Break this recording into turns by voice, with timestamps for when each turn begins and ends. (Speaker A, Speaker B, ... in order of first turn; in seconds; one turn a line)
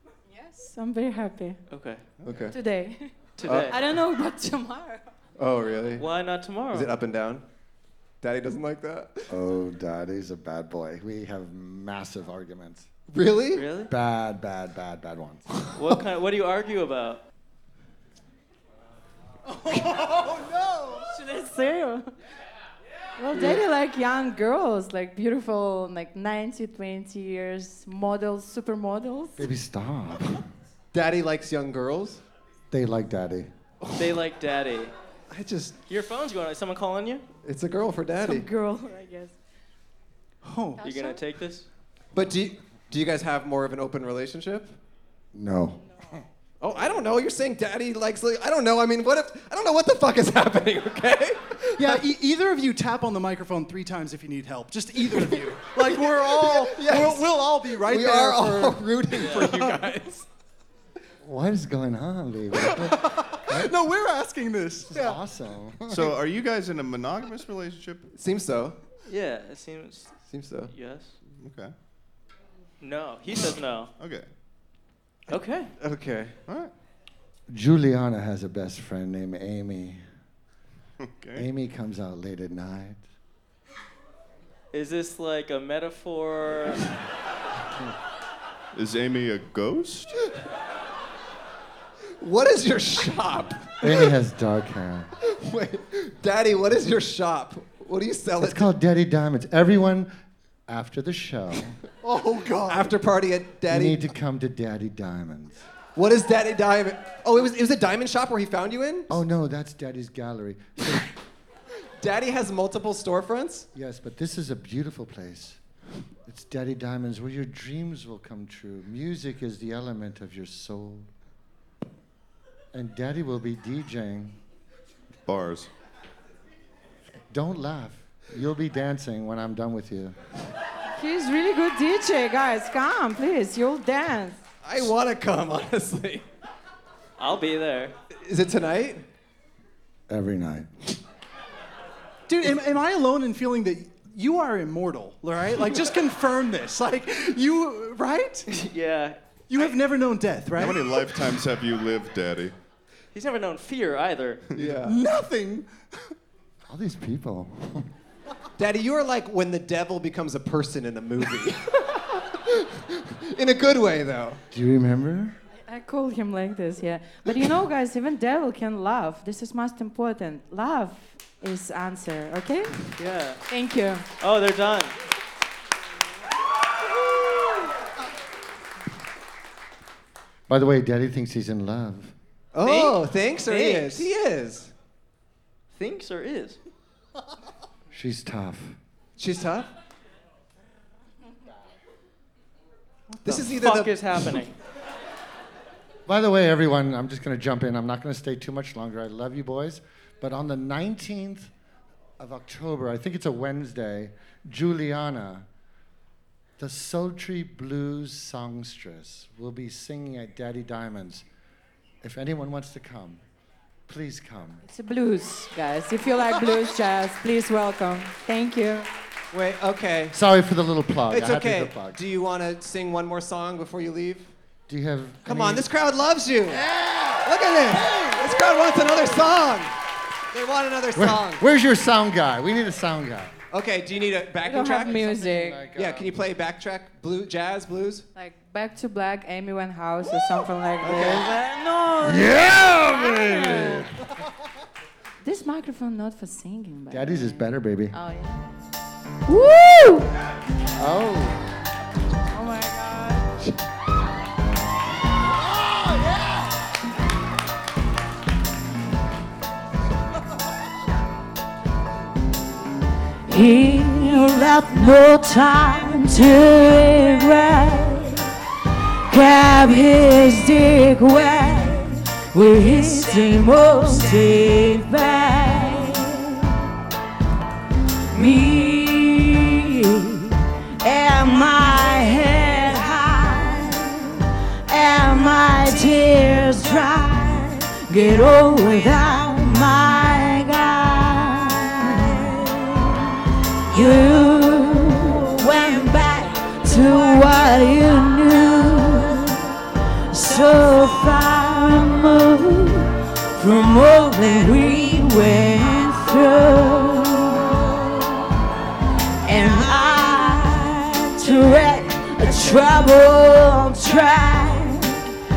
Speaker A: 0.3-1.6
Speaker B: 1.7-2.0
Speaker C: 2.2-2.5
Speaker A: 2.5-3.1
Speaker B: 3.4-3.8
Speaker C: 3.4-3.8
Speaker A: 3.7-5.1
Speaker C: 5.4-6.0
Speaker B: 6.0-6.9
Speaker C: 6.7-7.4
Speaker C: 8.2-9.3
Speaker D: 9.3-12.9
Speaker C: 13.1-13.7
Speaker B: 13.5-13.9
Speaker D: 13.9-15.4
Speaker B: 15.7-17.2
Speaker E: 19.4-21.1
Speaker A: 21.0-22.1
Speaker A: 23.2-29.5
Speaker D: 29.4-30.4
Speaker C: 30.9-32.2
Speaker D: 32.7-33.5
Speaker B: 34.0-34.9
Speaker C: 35.3-35.7
Speaker B: 35.9-37.2
Speaker C: 37.4-38.5
Speaker A: 38.2-39.4
Speaker E: 40.4-40.8
Speaker A: 40.8-41.2
Speaker B: 40.8-41.7
Speaker C: 42.1-44.8
Speaker D: 45.3-46.2
Speaker C: 46.6-52.0
Speaker E: 51.8-59.9
Speaker C: 55.0-60.2
Speaker B: 59.1-59.5
Speaker D: 61.2-63.7
Speaker E: 62.6-65.2
Speaker D: 64.9-66.2
Speaker F: 65.9-68.1
Speaker C: 68.1-68.8
Speaker B: 69.1-70.1
Speaker C: 70.3-70.7
Speaker B: 70.7-71.1
Speaker F: 71.4-71.7
Speaker B: 72.8-73.9
Speaker F: 74.0-74.3
Speaker B: 75.3-75.7
Speaker C: 75.8-76.4
Speaker F: 76.5-76.7
Speaker D: 77.5-80.0
Speaker F: 81.0-81.5
Speaker D: 81.3-83.0
Speaker B: 84.7-86.9
Speaker F: 88.7-90.2
Speaker C: 92.2-94.1
Speaker D: 93.8-95.1
Speaker C: 95.2-98.7
Speaker D: 98.4-100.1
Speaker D: 100.7-101.8
Speaker E: 102.0-102.9
Speaker C: 102.7-104.0
Speaker D: 103.7-105.6
Speaker C: 105.9-109.2
Speaker D: 109.1-111.1
Speaker C: 112.0-113.7
Speaker D: 113.7-115.6
Speaker D: 116.2-121.1
Speaker D: 122.7-124.4
Speaker F: 125.2-125.7
Speaker D: 127.3-130.2
Speaker A: 130.9-134.4
Speaker C: 134.6-136.3
Speaker B: 137.2-137.9
Speaker C: 138.2-139.1
Speaker D: 140.1-140.7
Speaker E: 142.3-148.5
Speaker B: 148.5-149.2
Speaker E: 149.5-151.1
Speaker F: 150.5-152.5
Speaker B: 153.1-154.4
Speaker C: 154.6-155.0
Speaker E: 154.8-156.1
Speaker D: 156.7-157.9
Speaker C: 158.6-164.4
Speaker D: 164.5-165.3
Speaker A: 165.6-172.8
Speaker B: 172.9-173.4
Speaker A: 173.5-174.1
Speaker B: 174.2-174.9
Speaker D: 180.5-182.1
Speaker C: 182.5-184.7
Speaker B: 182.6-183.0
Speaker B: 183.5-184.0
Speaker B: 185.7-186.6
Speaker D: 187.9-188.7
Speaker C: 189.2-189.7
Speaker C: 193.2-194.3
Speaker B: 193.2-194.5
Speaker D: 196.1-201.5
Speaker D: 202.2-205.4
Speaker D: 206.6-211.2
Speaker D: 212.0-213.2
Speaker D: 213.9-214.6
Speaker A: 214.6-218.9
Speaker C: 219.3-220.2
Speaker D: 220.1-222.0
Speaker C: 221.1-224.3
Speaker D: 224.7-225.7
Speaker C: 225.2-226.6
Speaker D: 226.7-227.2
Speaker C: 227.2-229.7
Speaker C: 230.3-231.4
Speaker D: 230.9-233.3
Speaker C: 233.5-235.2
Speaker A: 234.4-235.8
Speaker D: 235.0-236.2
Speaker C: 235.7-238.1
Speaker A: 238.1-243.9
Speaker C: 240.8-241.2
Speaker D: 241.0-241.4
Speaker D: 242.0-243.8
Speaker A: 245.2-248.5
Speaker D: 246.9-247.9
Speaker A: 249.3-250.1
Speaker D: 250.8-251.4
Speaker A: 252.3-253.3
Speaker G: 263.3-268.2
Speaker G: 269.1-276.5
Speaker G: 278.1-284.2
Speaker A: 281.1-281.6
Speaker G: 284.7-292.7
Speaker G: 293.7-299.5
Speaker A: 293.7-296.0
Speaker A: 296.6-298.2
Speaker G: 300.1-307.6
Speaker A: 304.4-305.2
Speaker A: 309.3-309.5
Speaker G: 309.3-315.1